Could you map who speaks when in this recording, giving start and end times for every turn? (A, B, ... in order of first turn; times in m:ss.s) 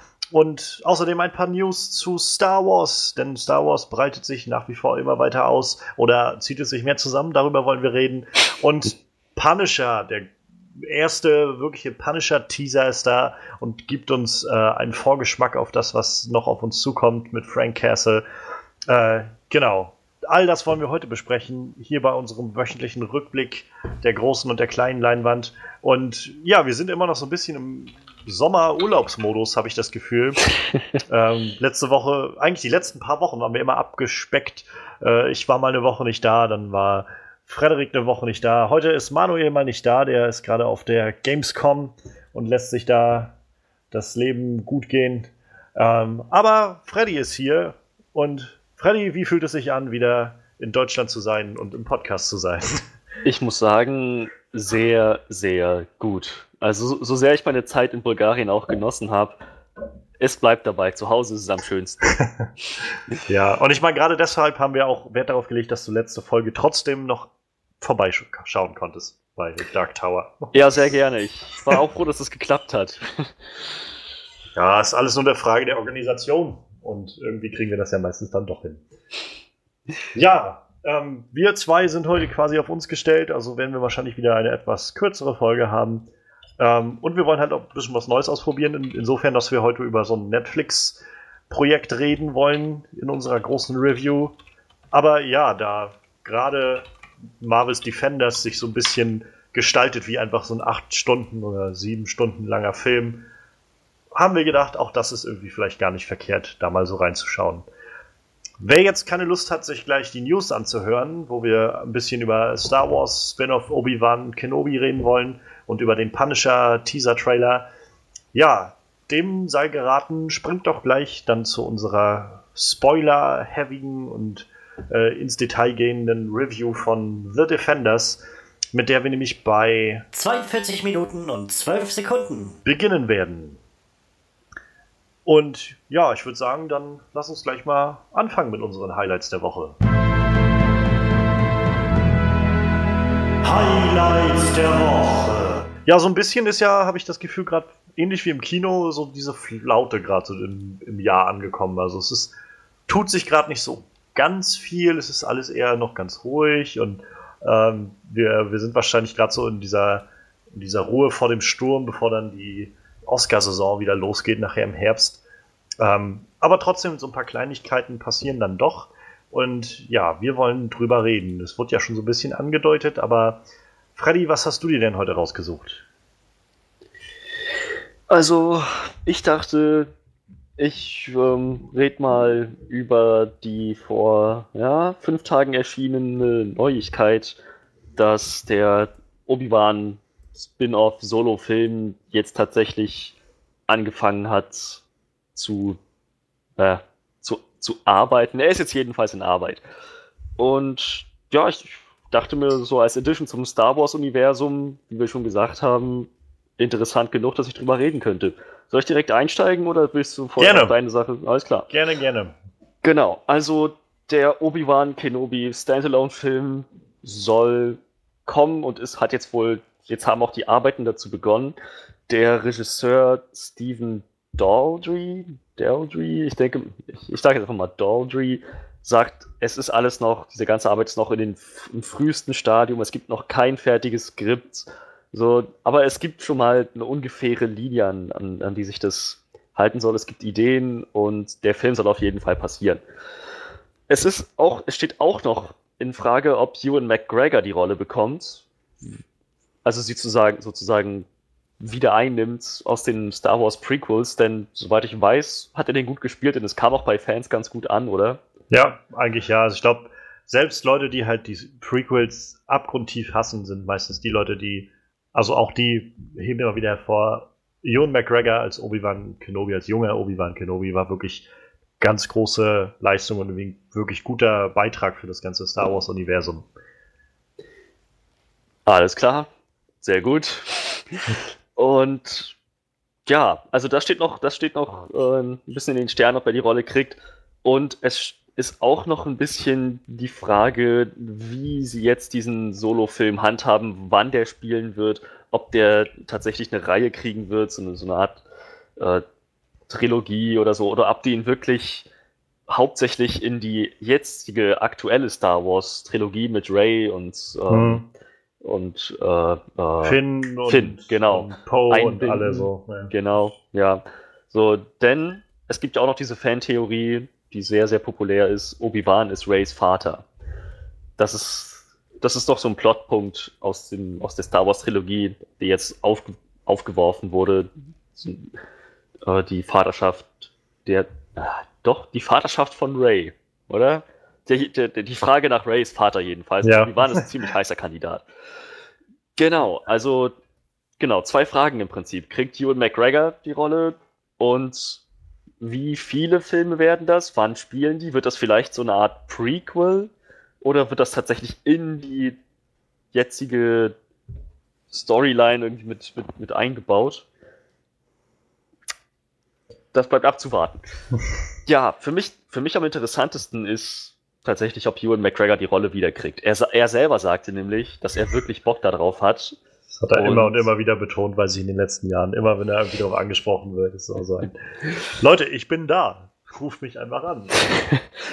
0:00.3-0:18.2 A
0:18.9-0:30.4 A
0:31.1-0:43.4 A
0:43.9-0:52.8 A
0:53.2-0:59.4 B
1:00.2-1:02.2 B
1:03.3-1:10.5 A
1:10.5-1:13.3 B
1:14.6-1:18.8 A
1:20.1-1:26.1 A
1:26.6-1:34.4 A
1:34.9-1:36.8 A
1:37.4-1:43.3 A
1:44.1-1:47.7 A
1:48.6-1:57.7 A
1:58.3-2:08.2 A
2:08.7-2:10.1 A
2:10.1-2:12.6 C
2:12.6-2:13.6 A
2:15.3-2:19.8 A
2:23.4-2:32.3 A
2:23.8-2:24.7 C
2:32.9-2:45.2 A
2:45.8-2:53.4 A
2:54.0-2:55.9 A
2:58.1-2:59.9 B
3:00.6-3:07.4 B
3:08.0-3:13.2 B
3:13.7-3:14.8 B
3:15.4-3:15.8 B
3:16.6-3:19.6 B
3:20.4-3:31.7 B
3:30.4-3:30.8 A
3:31.7-3:32.3 A
3:32.8-3:41.6 B
3:42.1-4:02.8 B
4:03.9-4:08.5 B
4:09.6-4:11.1 B
4:11.6-4:18.2 B
4:18.5-4:31.3 A
4:31.8-4:36.5 A
4:38.7-4:39.3 B
4:39.8-4:42.4 B
4:43.1-4:58.2 B
4:58.8-4:59.0 B
4:59.7-5:01.9 B
5:02.5-5:07.8 B
5:07.5-5:07.8 A
5:08.4-5:20.1 B
5:09.8-5:12.9 A
5:21.0-5:28.3 B
5:29.0-5:38.0 B
5:36.4-5:37.0 A
5:39.2-5:40.2 B
5:40.8-5:44.8 B
5:45.4-5:49.9 B
5:50.4-5:52.2 B
5:52.9-5:53.8 B
5:54.7-5:57.1 B
5:59.7-6:00.7 B
6:01.5-6:09.4 B
6:09.8-6:14.4 A
6:09.9-6:10.4 B
6:14.9-6:17.4 A